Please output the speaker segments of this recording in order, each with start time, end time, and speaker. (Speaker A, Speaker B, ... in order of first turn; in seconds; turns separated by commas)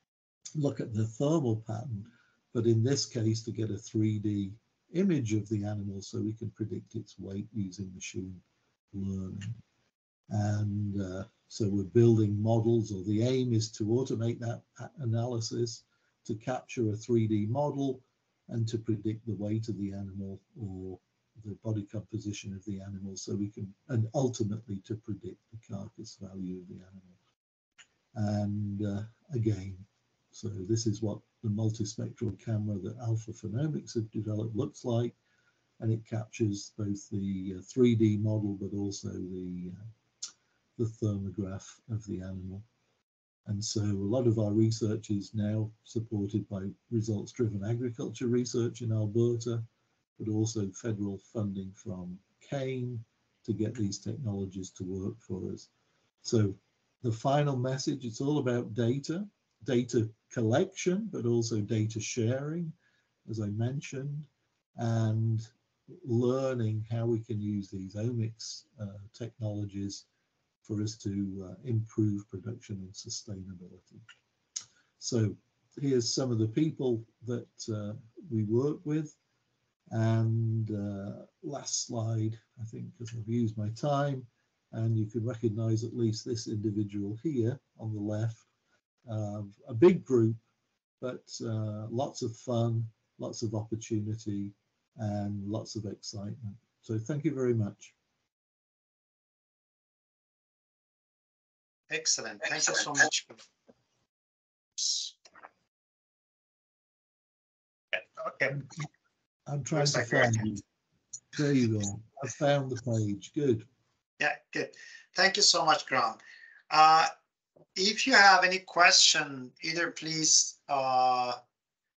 Speaker A: 0.6-9.6, Speaker A: 10.3-27.1, Speaker A: 28.1-35.1, Speaker A: 35.8-39.8, Speaker A: 40.8-42.6, Speaker A: 43.5-49.6, Speaker A: 50.2-55.7, Speaker A: 56.2-62.7, Speaker A: 63.2-70.0, Speaker A: 70.6-74.0, Speaker A: 75.0-79.2, Speaker A: 79.9-88.5, Speaker A: 89.1-90.4, Speaker A: 91.0-97.9, Speaker B: 101.9-103.4, Speaker B: 104.8-105.1, Speaker B: 107.9-108.6, Speaker A: 109.5-110.6, Speaker B: 109.7-110.5, Speaker A: 111.3-113.7, Speaker B: 114.2-116.2, Speaker B: 116.7-117.1, Speaker B: 117.7-121.4